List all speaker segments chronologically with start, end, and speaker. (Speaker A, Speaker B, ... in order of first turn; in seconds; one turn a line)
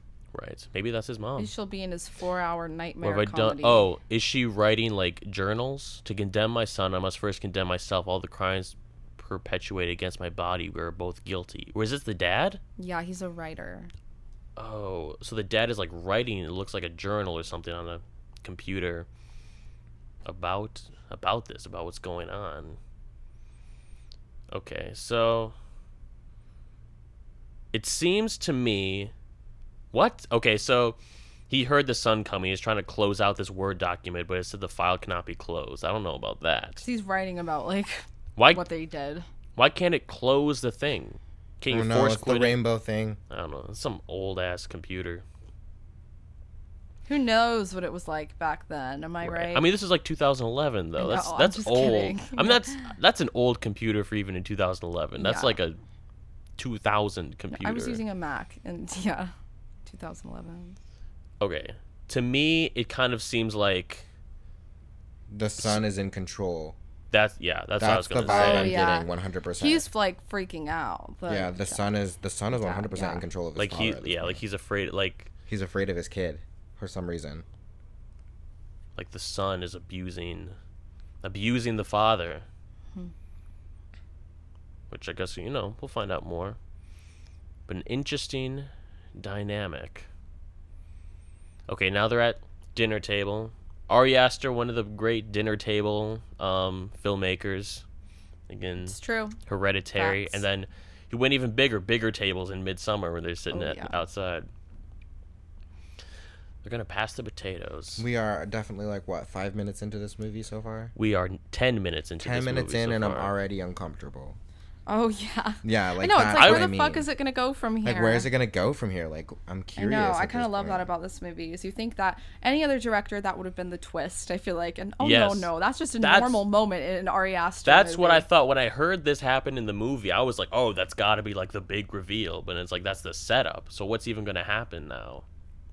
Speaker A: 0.3-1.5
Speaker B: 1.4-3.9
Speaker A: 3.0-12.6
Speaker B: 12.8-13.9
Speaker A: 14.6-19.1
Speaker A: 20.2-22.8
Speaker A: 24.5-25.5
Speaker A: 27.7-29.1
Speaker A: 29.9-31.0
Speaker A: 31.5-36.8
Speaker B: 36.8-39.2
Speaker A: 38.4-38.6
Speaker A: 39.5-42.6
Speaker C: 41.7-43.2
Speaker A: 43.3-45.2
Speaker B: 47.1-49.7
Speaker A: 49.2-55.8
Speaker B: 51.0-52.9
Speaker B: 55.2-55.6
Speaker A: 56.6-58.0
Speaker B: 57.5-59.3
Speaker B: 59.9-60.8
Speaker A: 61.4-64.0
Speaker C: 65.3-66.8
Speaker A: 67.1-68.8
Speaker C: 67.8-69.8
Speaker B: 68.2-71.9
Speaker C: 71.3-74.4
Speaker B: 72.5-73.2
Speaker A: 73.5-75.3
Speaker C: 75.5-77.4
Speaker A: 79.0-80.5
Speaker A: 81.2-82.4
Speaker A: 84.9-86.6
Speaker A: 87.7-90.1
Speaker A: 91.7-97.8
Speaker A: 98.5-104.5
Speaker B: 98.8-99.4
Speaker B: 99.9-100.4
Speaker B: 103.5-104.0
Speaker A: 106.6-108.0
Speaker C: 108.0-110.9
Speaker A: 111.0-113.3
Speaker C: 112.2-114.4
Speaker B: 114.9-118.3
Speaker C: 115.6-117.1
Speaker A: 116.3-116.7
Speaker C: 117.8-120.9
Speaker B: 119.8-128.2
Speaker A: 125.0-126.5
Speaker A: 127.6-135.2